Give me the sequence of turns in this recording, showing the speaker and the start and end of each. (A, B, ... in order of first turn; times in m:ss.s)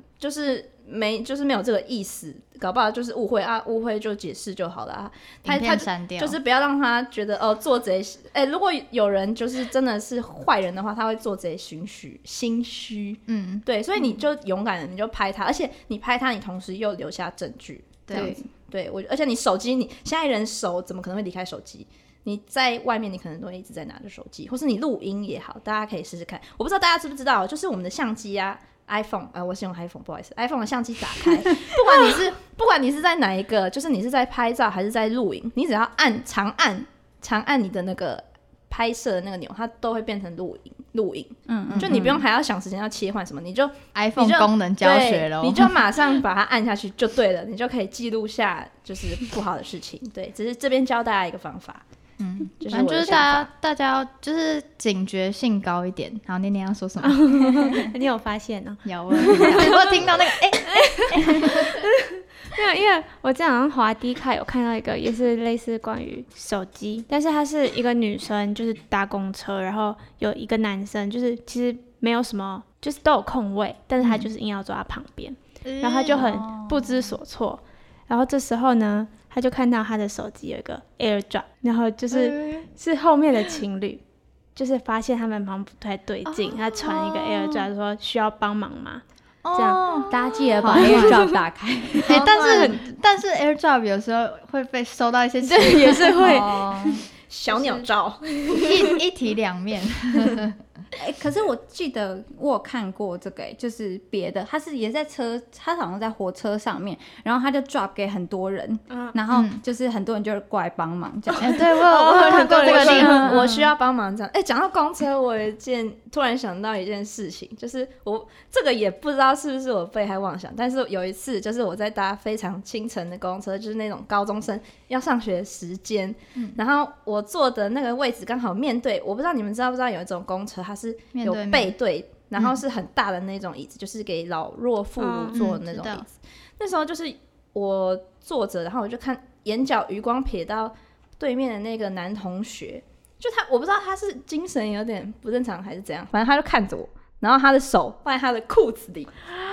0:00.2-0:51.8 A
0:05.4-0:06.4 B
0:13.3-0:13.6 B
0:18.1-0:18.4 B
0:18.1-0:18.4 C
0:41.5-0:42.1 C
0:41.8-0:42.2 B
0:44.0-0:45.8 B
0:52.2-0:57.9 B
0:52.6-0:53.5 A
0:57.0-1:00.0 D
0:58.8-1:01.8 B
1:00.6-1:24.0 D
1:15.6-1:16.3 B
1:16.2-1:17.1 C
1:22.1-1:22.7 B
1:24.6-1:29.0 D
1:26.3-1:27.7 B
1:29.4-1:31.3 B
1:29.5-1:30.1 D
1:30.1-1:32.3 C
1:30.7-1:31.3 D
1:32.1-1:36.4 B
1:32.1-1:32.8 A
1:32.1-1:32.8 D
1:35.4-1:37.9 D
1:36.2-1:37.0 C
1:37.3-1:39.0 A
1:38.5-1:40.6 B
1:41.0-1:51.8 C
1:49.3-1:49.6 B
1:51.3-1:53.6 D
1:51.4-1:53.4 B
1:52.1-2:29.3 A
1:52.8-1:53.4 C
2:11.2-2:11.8 B
2:15.0-2:15.4 D
2:15.3-2:16.1 B